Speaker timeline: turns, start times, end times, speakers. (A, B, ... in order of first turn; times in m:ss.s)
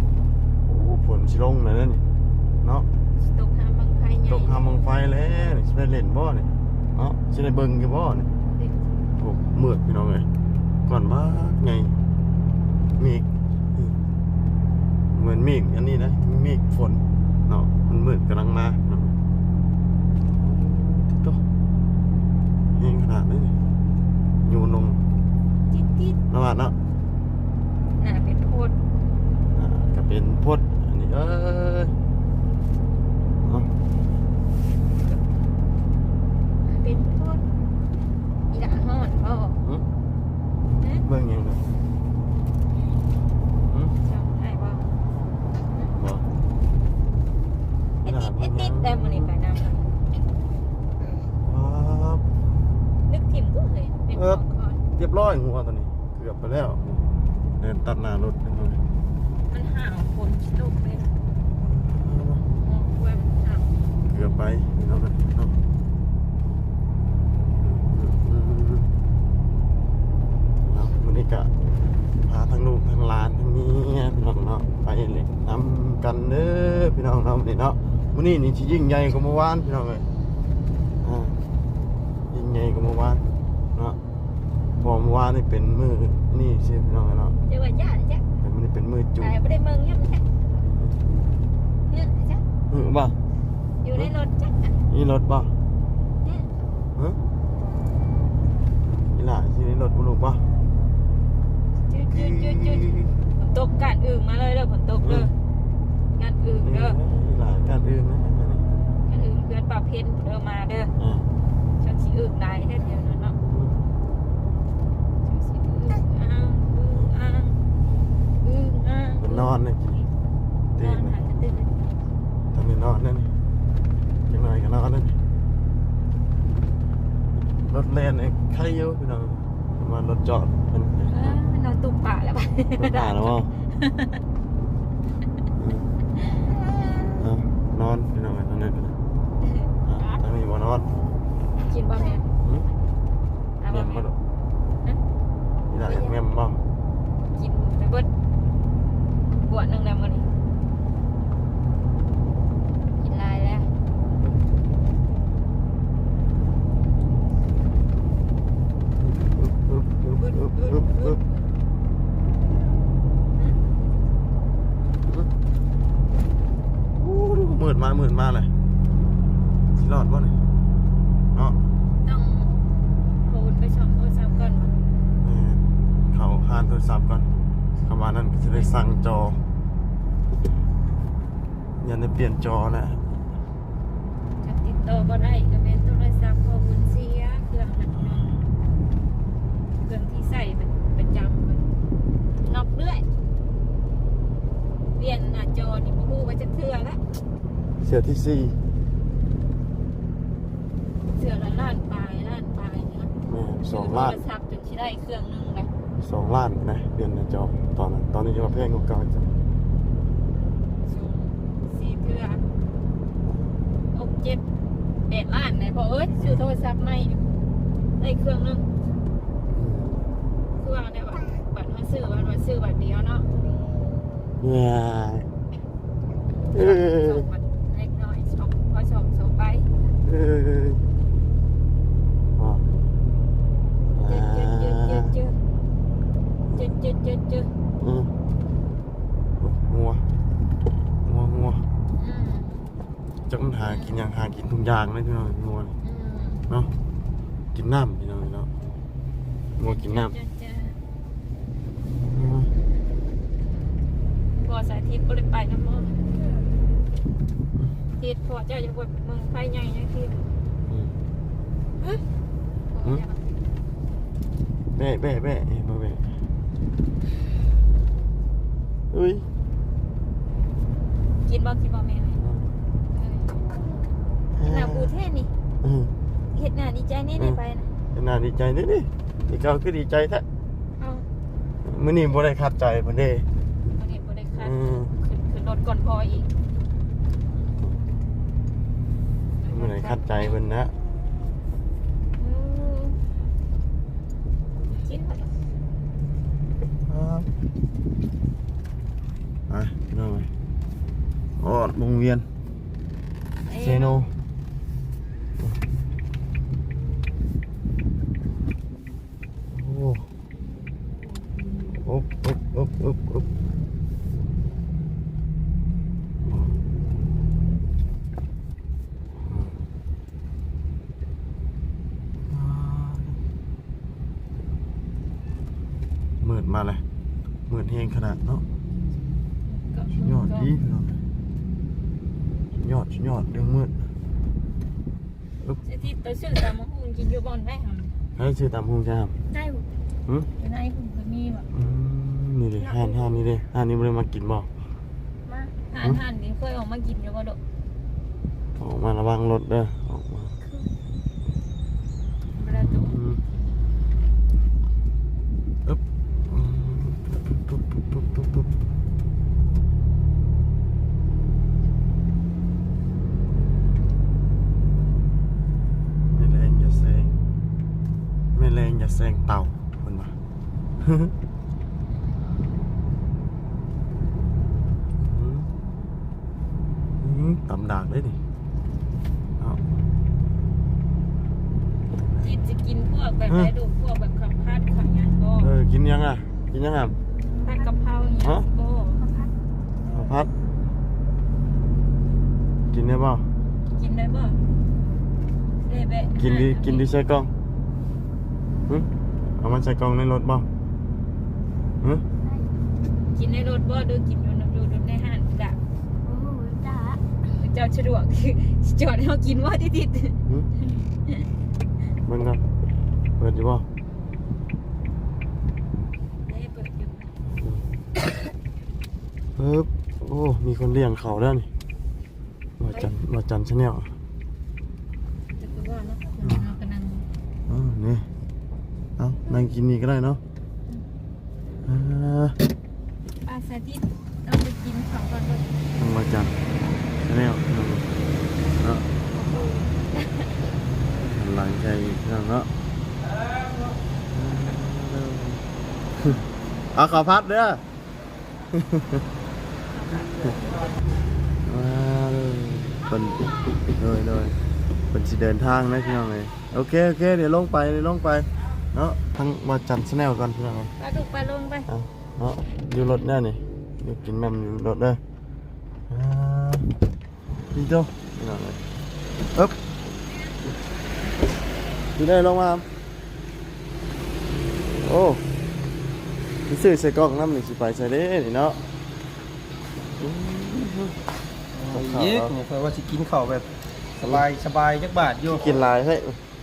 0:00.6-0:02.0 A
0:03.2-0:04.9 B
0:04.3-0:08.3 A
0:08.4-0:08.9 B
0:09.2-0:10.2 A
0:10.9-0:11.9 A
0:13.0-0:13.9 A
0:15.1-0:19.1 A
0:21.0-0:21.4 A
0:22.8-0:23.5 A
0:24.4-0:25.0 A
0:25.7-0:26.2 B
0:26.3-0:26.7 A
0:28.0-0:28.7 B
0:29.5-0:31.9 A
0:33.4-0:33.7 A
0:36.7-0:37.4 B
0:38.5-0:39.6 B
0:41.0-0:41.6 A
0:43.7-0:43.9 A
0:44.0-0:44.8 B
0:46.0-0:46.3 A
0:48.0-0:49.3 A
0:48.0-0:49.9 B
0:51.4-0:52.2 A
0:53.1-0:54.8 B
0:54.1-0:54.4 A
0:55.0-0:57.0 A
0:57.6-0:58.8 A
0:59.5-1:01.1 B
1:01.6-1:02.4 A
1:02.6-1:03.7 B
1:04.1-1:05.5 A
1:07.9-1:08.9 A
1:10.6-1:11.5 A
1:12.3-1:20.0 A
1:21.0-1:21.4 A
1:22.3-1:23.2 A
1:24.8-1:27.4 A
1:27.5-1:28.2 B
1:28.4-1:29.3 A
1:29.2-1:30.3 B
1:31.9-1:32.4 B
1:32.7-1:33.1 A
1:33.8-1:34.8 B
1:34.9-1:35.5 A
1:36.2-1:36.5 B
1:39.0-1:40.4 A
1:41.9-1:45.3 B
1:42.1-1:43.1 A
1:45.0-1:45.3 A
1:46.1-1:47.0 B
1:46.6-1:48.6 A
1:49.1-1:50.9 B
1:51.0-1:51.2 A
1:51.8-1:53.4 B
1:53.4-1:53.8 A
1:55.2-1:57.6 B
1:58.4-1:59.5 B
1:59.2-2:00.0 A
2:00.8-2:01.2 A
2:00.8-2:01.7 B
2:02.5-2:03.3 A
2:04.3-2:05.2 A
2:07.6-2:11.4 A
2:11.1-2:14.2 B
2:12.8-2:13.5 A
2:15.6-2:15.9 A
2:17.2-2:19.0 A
2:19.4-2:20.2 B
2:19.8-2:20.9 A
2:21.6-2:22.2 B
2:23.6-2:24.1 B
2:23.7-2:24.2 A
2:25.7-2:26.6 A
2:27.3-2:28.1 B
2:29.3-2:30.2 B
2:33.0-2:33.7 B
2:39.0-2:41.2 A
2:40.2-2:41.5 B
2:47.0-2:48.5 A
2:49.7-2:50.3 A
2:52.0-2:52.5 B
2:53.2-2:54.9 B
2:55.2-2:57.2 A
2:57.8-2:59.4 A
3:01.8-3:03.2 A
3:04.4-3:08.3 B
3:07.9-3:08.3 A
3:09.8-3:11.7 B
3:12.4-3:13.0 B
3:15.0-3:17.0 B
3:17.8-3:18.6 A
3:21.1-3:23.1 B
3:23.3-3:24.2 A
3:23.7-3:25.7 B
3:26.0-3:29.3 A
3:30.8-3:32.4 B
3:33.9-3:34.4 B
3:35.1-3:37.2 B
3:38.0-3:38.7 B
3:39.5-3:40.0 A
3:40.6-3:43.3 B
3:44.4-3:45.3 A
3:46.5-3:49.7 B
3:46.5-3:47.2 A
3:50.0-3:50.8 A
3:52.4-3:52.6 A
3:53.9-3:55.1 A
3:54.0-3:55.4 B
3:56.5-3:57.5 B
3:57.8-3:58.1 A
3:59.4-4:00.0 A
4:01.0-4:01.6 A
4:02.0-4:02.7 B
4:03.3-4:05.7 A
4:03.6-4:04.0 B
4:05.8-4:06.4 B
4:07.5-4:08.5 A
4:09.6-4:10.1 A
4:09.6-4:10.8 B
4:11.8-4:12.5 A
4:14.4-4:15.9 B
4:18.0-4:20.3 B
4:22.7-4:23.3 B
4:24.7-4:26.1 A
4:28.9-4:29.2 A
4:31.2-4:32.2 B
4:32.2-4:32.5 A
4:32.9-4:33.4 B
4:34.3-4:34.9 A
4:34.4-4:35.3 B
4:35.6-4:35.9 A
4:36.3-4:37.7 B
4:37.9-4:40.2 A
4:40.8-4:41.0 B
4:41.6-4:43.2 A
4:43.7-4:46.3 B
4:44.4-4:44.9 A
4:49.4-4:50.4 B
4:49.5-4:50.7 A
4:52.2-4:53.0 B
4:54.7-4:55.3 B
4:56.9-4:57.3 A
4:59.5-5:00.3 A
5:01.4-5:02.2 A
5:03.4-5:04.0 B
5:03.6-5:04.1 A
5:09.5-5:10.1 A
5:11.8-5:13.2 A
5:16.2-5:16.5 A
5:19.1-5:19.6 A
5:22.3-5:23.2 A
5:26.2-5:26.8 A
5:27.5-5:28.4 A
5:29.4-5:30.5 B
5:29.9-5:31.0 A
5:32.6-5:33.7 A
5:35.6-5:37.9 B
5:38.2-5:39.1 A
5:39.3-5:39.7 C
5:40.4-5:41.5 B
5:41.5-5:44.5 A
5:42.6-5:43.2 C
5:45.2-5:45.5 C
5:45.7-5:47.4 B
5:48.6-5:50.3 A
5:50.4-5:50.7 C
5:52.4-5:53.1 B
5:52.4-5:53.2 A
5:55.6-5:58.5 A
6:06.1-6:07.1 A
6:08.3-6:10.1 A
6:10.8-6:11.1 A
6:15.0-6:15.5 A
6:17.0-6:18.2 A
6:22.2-6:25.5 B
6:25.4-6:27.0 A
6:27.4-6:29.0 B
6:29.0-6:29.3 C
6:29.9-6:30.3 A
6:32.7-6:33.2 A
6:33.8-6:34.4 B
6:35.6-6:36.9 B
6:36.2-6:37.3 A
6:39.4-6:40.5 A
6:42.2-6:42.5 C
6:43.1-6:45.6 B
6:46.0-6:47.0 C
6:47.4-6:50.2 B
6:52.0-6:52.4 A
6:53.2-6:53.6 A
6:56.2-6:57.1 B
6:57.3-6:57.7 A
6:59.4-7:01.5 A
7:02.6-7:03.9 A
7:05.4-7:07.0 B
7:06.2-7:06.5 A
7:07.5-7:08.0 A
7:09.0-7:10.2 A
7:11.6-7:12.4 A
7:13.2-7:15.5 B
7:15.8-7:16.3 A
7:17.0-7:17.9 A
7:18.6-7:18.8 A
7:19.4-7:20.2 B
7:21.0-7:22.5 A
7:23.0-7:23.8 D
7:24.1-7:25.4 A
7:26.7-7:27.6 A
7:28.5-7:29.0 A
7:29.9-7:30.8 D
7:31.4-7:34.4 A
7:34.9-7:40.7 A
7:40.8-7:41.7 B
7:41.7-7:45.0 A
7:45.9-7:46.7 A
7:47.5-7:48.6 A
7:52.0-7:52.6 A
7:54.8-7:55.2 A
7:56.5-7:58.6 A
8:00.0-8:00.9 A
8:01.5-8:03.4 D
8:01.7-8:02.3 A
8:04.0-8:05.5 D
8:05.3-8:06.2 A